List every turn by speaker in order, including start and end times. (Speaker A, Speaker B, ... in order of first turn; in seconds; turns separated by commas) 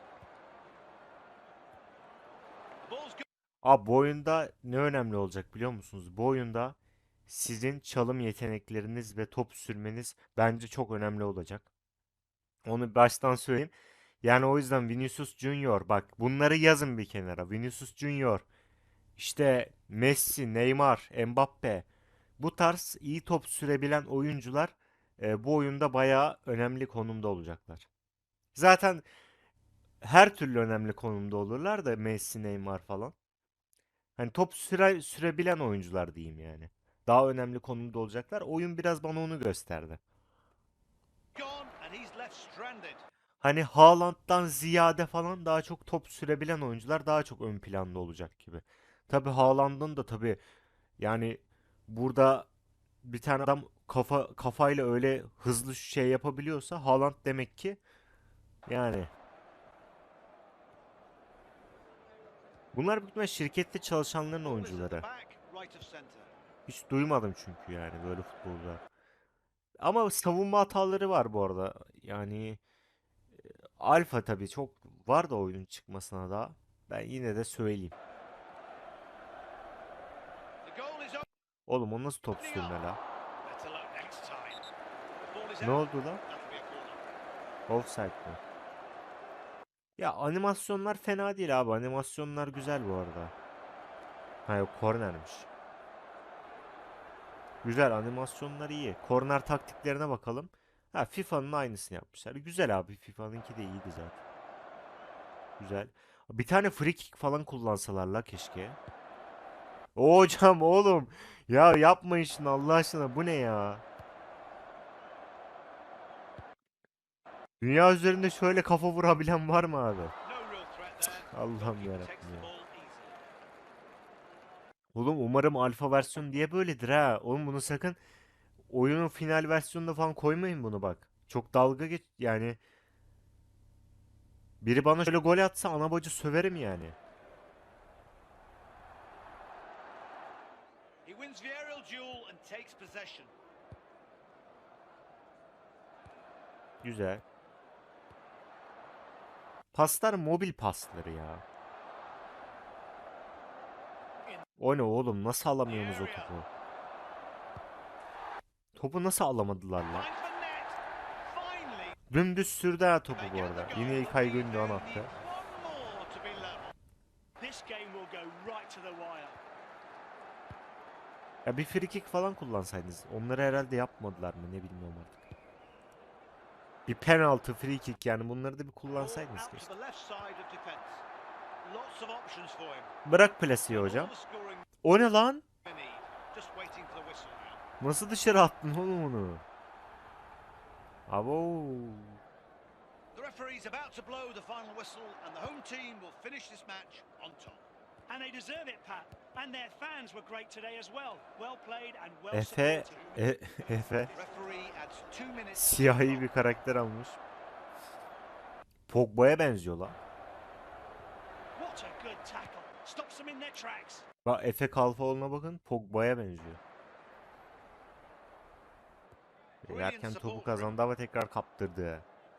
Speaker A: 2.8-3.3, Speaker B: 3.6-6.8, Speaker B: 7.3-11.7, Speaker B: 12.7-18.4, Speaker B: 19.2-21.9, Speaker B: 22.4-27.9, Speaker B: 28.6-29.1, Speaker B: 30.0-33.1, Speaker B: 34.2-40.0, Speaker A: 41.4-43.0, Speaker B: 43.4-50.4, Speaker B: 51.0-52.5, Speaker B: 53.0-57.8, Speaker B: 58.7-59.1, Speaker B: 62.7-65.0, Speaker A: 64.4-66.3, Speaker B: 66.7-68.8, Speaker B: 69.8-72.6, Speaker B: 73.8-78.0, Speaker A: 80.6-81.3, Speaker B: 81.7-83.0, Speaker A: 82.4-82.8, Speaker A: 83.5-84.7, Speaker A: 85.2-87.2, Speaker B: 85.6-86.2, Speaker B: 87.7-88.4, Speaker B: 90.0-93.3, Speaker B: 94.5-95.5, Speaker B: 97.6-104.2, Speaker B: 105.6-108.8, Speaker B: 110.0-113.8, Speaker B: 117.6-120.1, Speaker A: 120.2-123.2, Speaker B: 121.3-122.5, Speaker B: 125.0-128.0, Speaker B: 128.7-132.6, Speaker B: 134.6-137.0, Speaker A: 141.1-143.3, Speaker B: 146.8-147.2, Speaker B: 149.7-151.4, Speaker B: 154.6-156.5, Speaker A: 155.7-156.3, Speaker B: 158.8-160.1, Speaker A: 159.9-162.0, Speaker B: 162.1-165.1, Speaker A: 163.1-166.8, Speaker C: 167.4-169.4, Speaker B: 171.4-175.2, Speaker B: 176.9-179.7, Speaker A: 178.9-181.0, Speaker A: 181.6-182.9, Speaker B: 183.1-184.1, Speaker A: 183.7-184.7, Speaker B: 184.8-185.4, Speaker A: 185.6-187.6, Speaker B: 187.8-189.4, Speaker B: 191.1-192.2, Speaker A: 193.1-197.7, Speaker C: 198.1-203.2, Speaker B: 202.3-204.1, Speaker A: 202.9-203.2, Speaker A: 204.1-206.3, Speaker B: 205.6-207.2, Speaker B: 208.9-210.0, Speaker C: 211.6-214.1, Speaker B: 214.2-216.6, Speaker A: 219.6-220.7, Speaker B: 219.6-222.1